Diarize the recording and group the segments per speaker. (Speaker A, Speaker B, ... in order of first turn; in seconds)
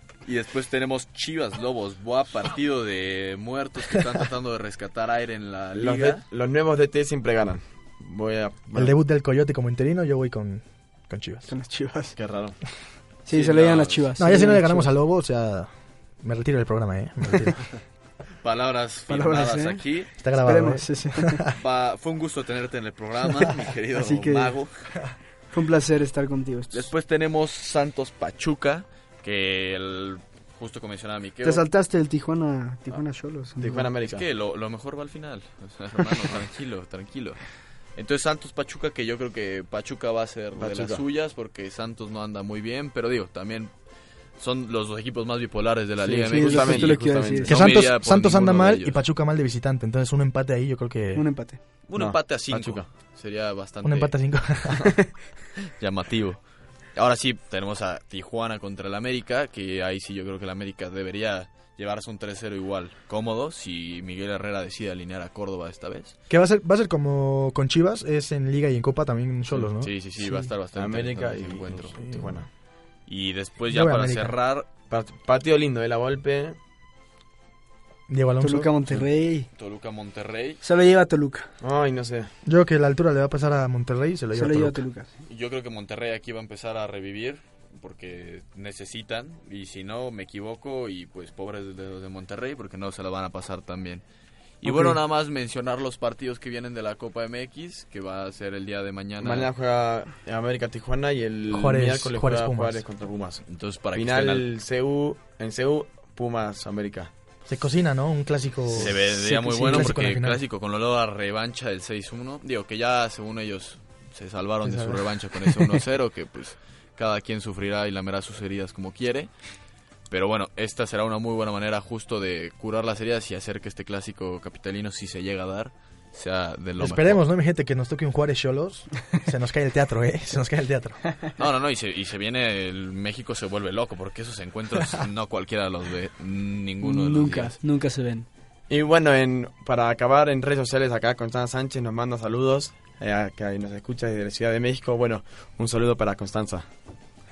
Speaker A: 0.2-6.2, 13.3-14.1, 18.4-20.1, 21.5-24.7, 26.7-31.6, 34.0-37.4, 38.0-43.7, 44.4-49.0, 51.9-54.1, 55.8-56.4, 56.9-66.1, 69.7-72.0, 73.1-74.7, 79.5-80.6, 85.3-94.0, 94.6-99.5, 103.5-104.5, 108.7-119.3, 120.1-127.2, 131.4-137.6
Speaker B: 5.7-8.9, 12.2-12.6, 33.6-34.2, 40.6-41.0, 46.0-47.6, 52.0-52.9, 70.7-72.5, 74.9-76.6, 81.6-82.3, 99.2-103.4, 103.9-107.1, 138.7-146.7
Speaker C: 8.7-11.5, 14.2-15.7, 16.2-17.6, 20.2-21.5, 47.5-51.2, 53.8-55.0, 66.3-69.9, 72.1-72.4, 73.7-74.3, 78.1-78.7, 82.4-84.8, 94.6-95.0, 101.5-102.8, 107.5-110.4, 114.6-115.8, 126.8-131.0
Speaker D: 11.5-12.1, 13.2-14.9, 19.1-19.8, 20.4-21.5, 24.0-24.5, 25.5-26.9, 31.4-33.9, 46.3-47.5, 51.1-51.6, 78.4-79.5, 80.6-81.5, 84.3-85.1, 136.8-138.3